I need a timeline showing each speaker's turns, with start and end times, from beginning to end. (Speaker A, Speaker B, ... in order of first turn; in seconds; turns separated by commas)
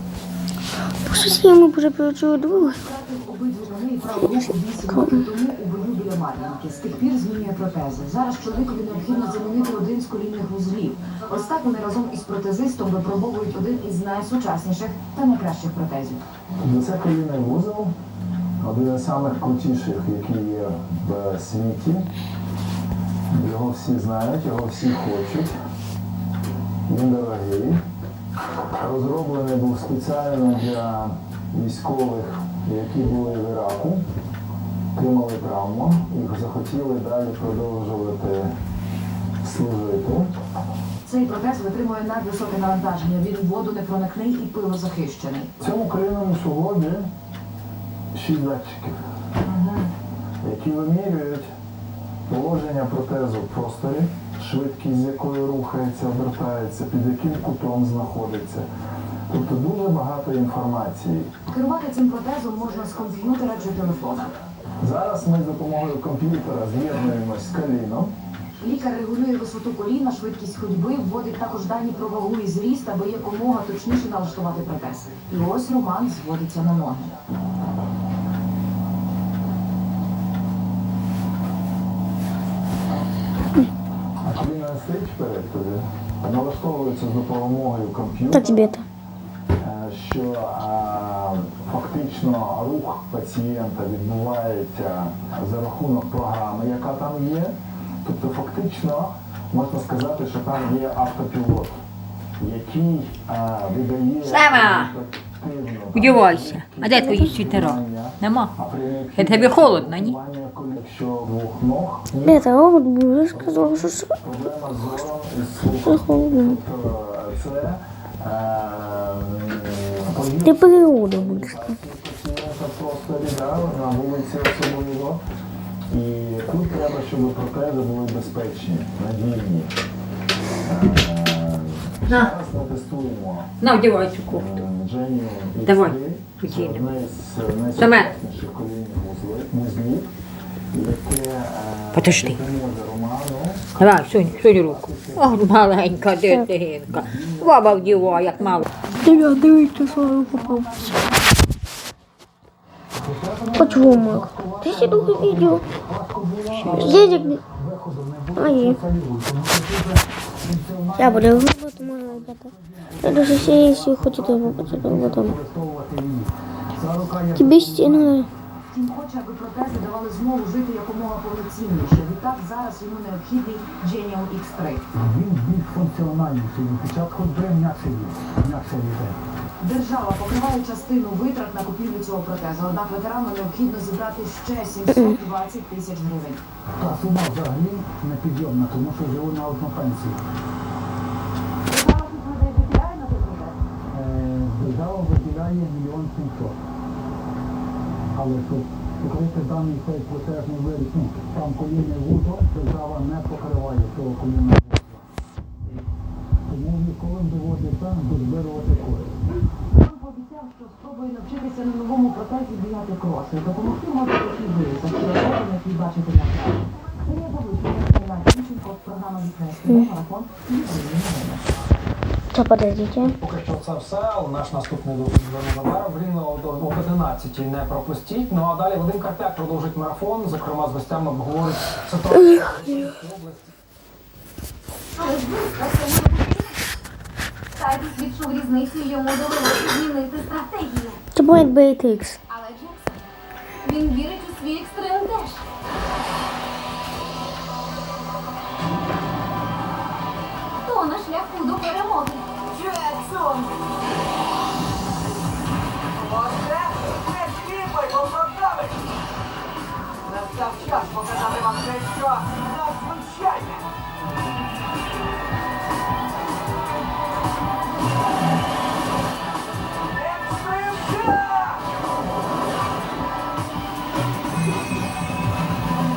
Speaker A: 1.1-2.7, Speaker B: 2.5-16.2, Speaker C: 16.6-17.9, Speaker C: 18.6-22.0, Speaker C: 23.3-25.5, Speaker C: 26.9-27.8, Speaker C: 28.7-34.0, Speaker C: 34.9-38.5, Speaker C: 39.4-40.3, Speaker B: 41.0-45.5, Speaker C: 45.6-47.1, Speaker C: 48.1-49.0, Speaker B: 49.4-49.9, Speaker C: 50.4-51.5, Speaker C: 52.3-58.7, Speaker C: 59.3-61.3, Speaker B: 61.5-64.3, Speaker C: 62.7-68.1, Speaker B: 68.6-77.1, Speaker C: 84.2-88.7, Speaker A: 88.3-88.8, Speaker C: 89.6-101.8, Speaker C: 102.4-112.5, Speaker D: 104.2-104.9, Speaker D: 105.9-108.5, Speaker A: 107.0-107.3, Speaker D: 109.2-110.2, Speaker A: 112.2-114.1, Speaker C: 113.3-125.2, Speaker A: 115.8-116.5, Speaker A: 120.4-121.6, Speaker C: 125.9-129.7, Speaker C: 130.6-133.6, Speaker D: 132.1-132.3, Speaker D: 133.6-134.6, Speaker C: 134.3-140.1, Speaker D: 135.6-136.8, Speaker D: 137.8-138.1, Speaker C: 140.7-146.3, Speaker D: 141.9-142.4, Speaker D: 143.8-148.7, Speaker C: 146.9-148.4, Speaker B: 148.8-151.3, Speaker A: 149.0-150.7, Speaker E: 153.0-168.3, Speaker A: 153.5-155.6, Speaker D: 156.6-157.0, Speaker A: 156.7-157.4, Speaker A: 158.3-158.8, Speaker A: 161.0-165.3, Speaker A: 167.3-168.3, Speaker B: 168.7-174.8, Speaker E: 174.9-179.2, Speaker B: 179.6-186.4, Speaker E: 186.8-190.2, Speaker B: 191.7-193.6, Speaker E: 193.9-196.6, Speaker E: 198.1-205.0, Speaker E: 206.5-209.2, Speaker B: 209.7-221.4, Speaker A: 222.3-223.1, Speaker F: 223.1-233.5, Speaker B: 235.0-236.6, Speaker B: 237.6-240.9, Speaker G: 237.6-240.4, Speaker A: 241.1-242.2, Speaker B: 242.3-243.0, Speaker G: 243.7-245.4, Speaker B: 250.7-253.5, Speaker G: 251.1-252.2, Speaker B: 255.9-258.8, Speaker B: 260.1-263.6, Speaker B: 269.9-271.5